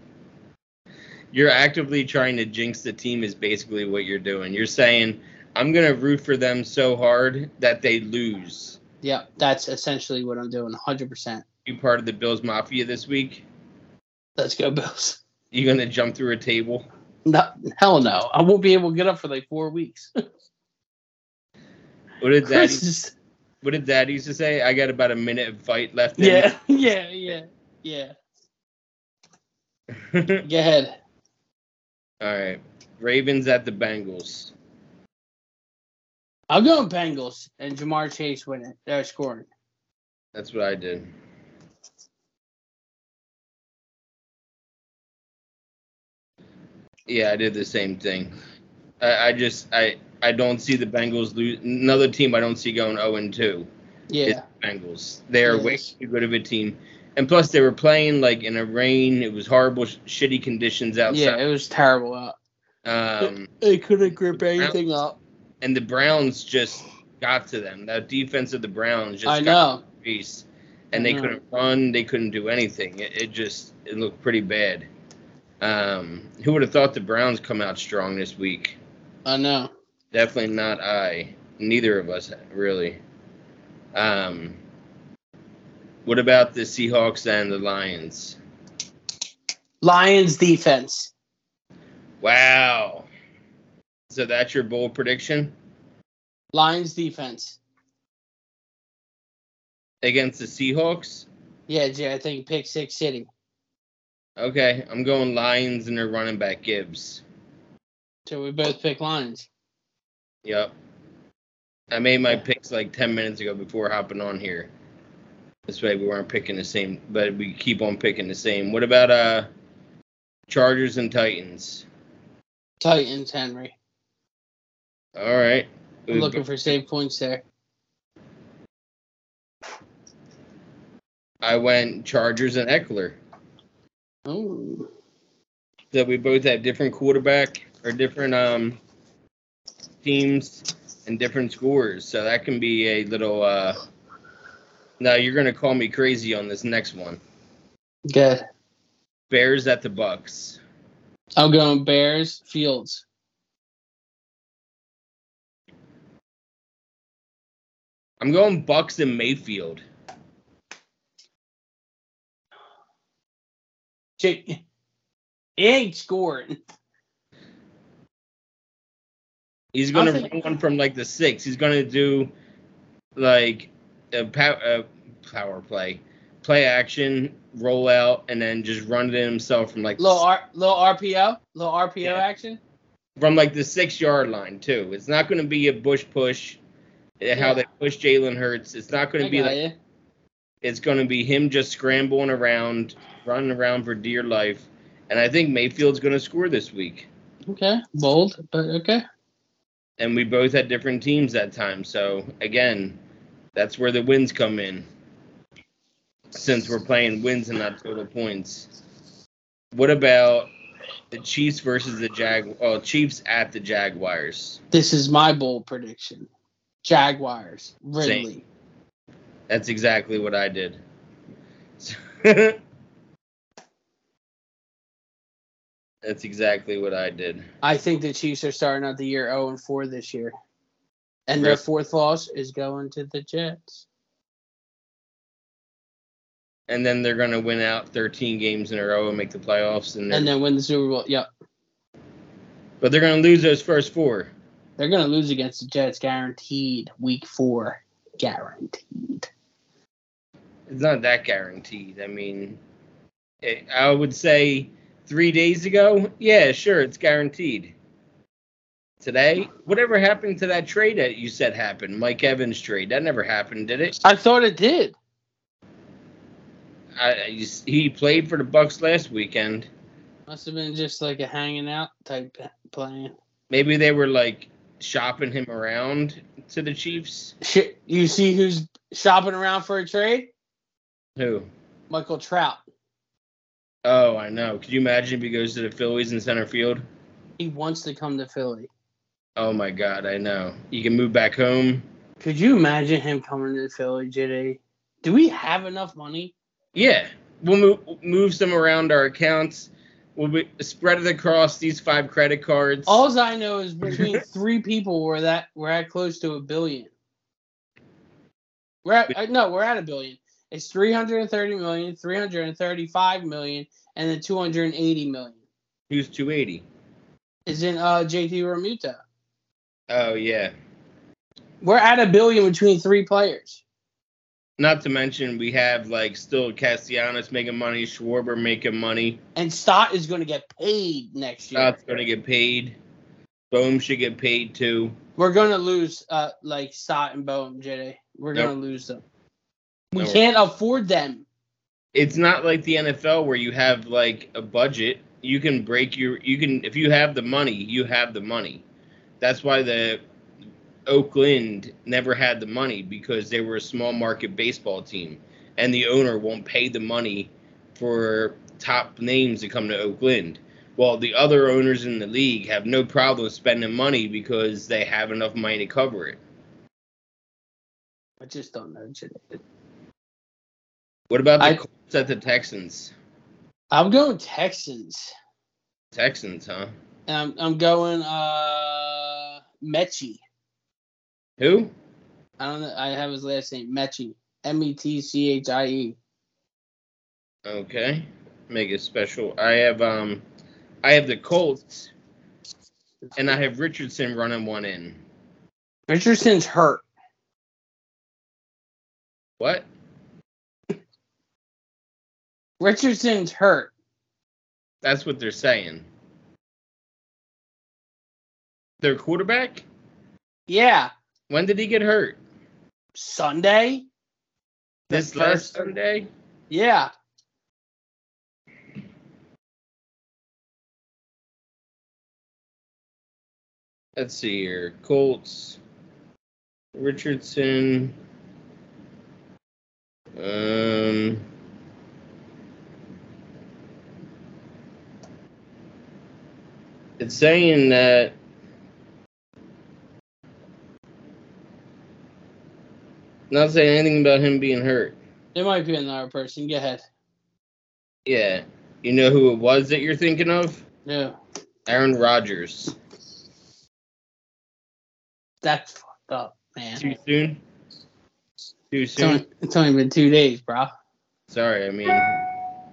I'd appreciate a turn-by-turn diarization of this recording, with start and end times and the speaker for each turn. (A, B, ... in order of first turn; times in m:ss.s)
0:01.3-0:08.8 A
0:09.0-0:11.4 B
0:11.7-0:13.4 A
0:14.4-0:15.2 B
0:15.5-0:16.9 A
0:17.3-0:20.1 B
0:22.2-0:22.8 A
0:22.4-0:23.1 B
0:23.6-0:26.5 A
0:26.2-0:28.1 B
0:30.0-0:30.4 A
0:30.4-0:31.0 B
0:32.2-0:34.5 A
0:36.5-0:39.5 B
0:40.4-0:41.1 A
0:47.1-0:48.4 A
0:49.0-0:53.7 A
0:54.1-0:54.4 B
0:54.2-1:01.4 A
0:55.4-0:55.9 B
1:01.1-1:02.4 B
1:02.8-1:03.5 A
1:03.2-1:05.2 B
1:04.4-1:04.8 A
1:05.6-1:14.9 A
1:09.2-1:09.8 B
1:10.9-1:11.4 B
1:15.6-1:18.8 A
1:19.3-1:19.7 B
1:20.1-1:23.0 A
1:24.0-1:24.6 A
1:26.0-1:28.4 A
1:29.8-1:31.1 B
1:32.2-1:33.1 A
1:34.1-1:35.6 A
1:36.5-1:37.6 B
1:40.0-1:41.3 A
1:41.7-1:43.3 B
1:44.4-1:47.2 A
1:48.3-1:49.5 B
1:50.4-1:50.7 A
1:51.9-1:54.7 A
1:55.7-1:59.5 A
2:00.5-2:01.9 A
2:02.8-2:03.8 B
2:05.2-2:06.4 A
2:06.1-2:07.4 B
2:11.4-2:13.2 A
2:14.3-2:14.9 B
2:15.9-2:18.8 A
2:20.0-2:23.8 A
2:25.0-2:27.2 A
2:28.1-2:28.4 B
2:29.3-2:30.6 A
2:31.4-2:33.0 B
2:38.2-2:39.8 A
2:44.2-2:44.6 B
2:45.6-2:46.6 B
2:49.7-2:52.3 A
2:49.9-2:50.4 B
2:53.2-3:00.2 A
3:00.0-3:02.6 B
3:03.2-3:06.6 A
3:07.2-3:09.6 A
3:07.4-3:07.6 B
3:09.2-3:09.7 B
3:10.6-3:17.1 A
3:17.5-3:19.0 B
3:20.0-3:23.0 A
3:23.6-3:24.9 A
3:26.3-3:28.7 A
3:29.7-3:30.5 A
3:31.1-3:34.6 A
3:34.7-3:36.3 B
3:36.8-3:38.4 B
3:38.0-3:38.3 A
3:39.5-3:40.8 A
3:41.8-3:42.6 A
3:46.0-3:47.5 A
3:47.6-3:50.3 B
3:51.3-3:53.8 B
3:56.7-4:00.3 A
4:00.1-4:01.3 B
4:02.8-4:04.3 A
4:04.8-4:09.3 B
4:10.7-4:12.6 A
4:13.4-4:17.7 A
4:19.0-4:24.0 A
4:24.0-4:25.0 B
4:27.0-4:29.7 A
4:30.3-4:33.1 B
4:33.5-4:37.4 A
4:37.4-4:40.3 B
4:41.2-4:41.5 A
4:41.9-4:42.6 B
4:43.8-4:46.8 A
4:47.4-4:48.7 B
4:49.4-4:51.9 A
4:52.2-4:56.3 B
4:56.8-5:03.0 A
5:02.9-5:06.9 B
5:03.8-5:04.2 A
5:08.8-5:15.4 B
5:15.9-5:16.7 A
5:17.5-5:19.0 B
5:19.9-5:20.5 A
5:21.6-5:23.6 B
5:24.6-5:29.2 A
5:29.4-5:31.8 B
5:31.6-5:32.8 A
5:33.5-5:35.0 A
5:35.2-5:39.0 B
5:39.9-5:41.2 B
5:40.0-5:40.2 A
5:41.9-5:48.6 A
5:49.2-5:50.0 A
5:50.9-6:06.2 A
6:08.2-6:09.4 B
6:11.1-6:12.9 A
6:13.7-6:15.1 B
6:15.9-6:16.7 A
6:17.1-6:20.2 B
6:21.4-6:21.7 A
6:22.4-6:26.0 B
6:27.4-6:30.2 A
6:30.8-6:31.9 A
6:33.2-6:35.0 A
6:35.9-6:36.8 B
6:39.4-6:39.7 A
6:42.6-6:43.7 B
6:44.8-6:45.9 A
6:48.8-6:49.6 A
6:50.5-6:50.9 B
6:51.3-6:52.2 A
6:53.0-6:53.9 B
6:54.9-6:55.6 B
6:54.9-6:56.1 A
6:56.5-6:56.9 B
7:04.0-7:05.6 A
7:06.8-7:08.0 A
7:10.2-7:11.2 A
7:17.0-7:18.1 A
7:23.3-7:25.0 A
7:25.4-7:26.8 B
7:28.1-7:30.6 A
7:30.9-7:31.2 B
7:31.7-7:32.8 A
7:35.4-7:36.8 B
7:36.8-7:37.4 A
7:38.7-7:39.2 A
7:39.0-7:40.7 B
7:41.3-7:42.3 A